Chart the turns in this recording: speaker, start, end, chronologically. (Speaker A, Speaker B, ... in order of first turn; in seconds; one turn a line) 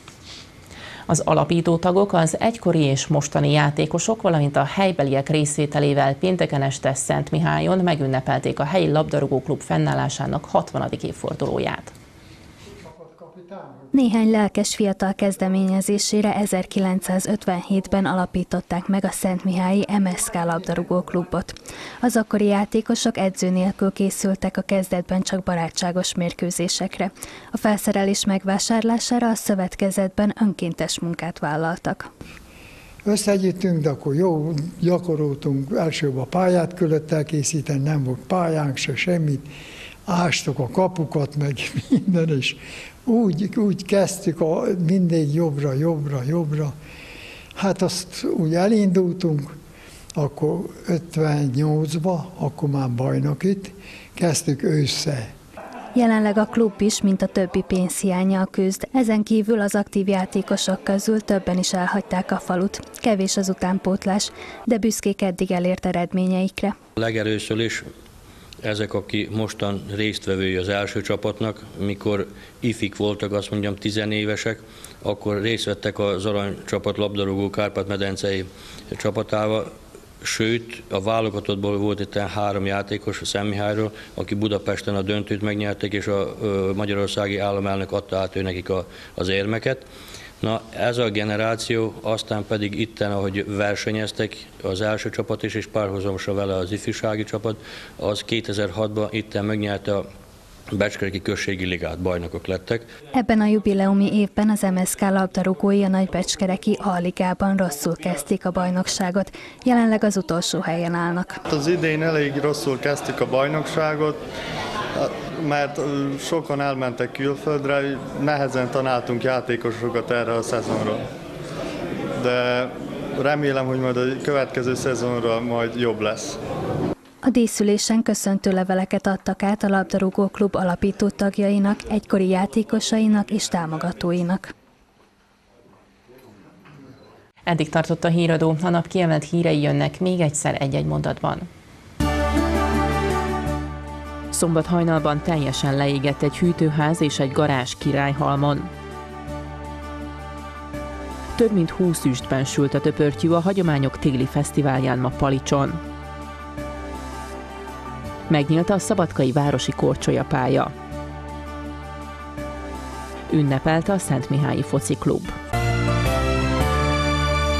Speaker A: 1.1-11.9
Speaker B: 12.9-13.8
Speaker C: 13.9-32.1
Speaker B: 33.0-39.5
Speaker B: 40.1-46.7
Speaker B: 47.5-49.5
Speaker B: 50.1-55.3
Speaker C: 55.9-66.7
Speaker D: 67.0-67.9
Speaker D: 68.6-89.8
Speaker D: 90.4-100.0
Speaker D: 100.7-102.9
Speaker C: 103.1-111.4
Speaker E: 111.5-114.2
Speaker E: 115.0-121.0
Speaker E: 122.2-126.4
Speaker C: 127.2-134.5
Speaker A: 137.5-141.5
Speaker A: 144.3-148.7
Speaker A: 151.4-155.8
Speaker A: 158.3-160.7
Speaker A: 163.3-165.3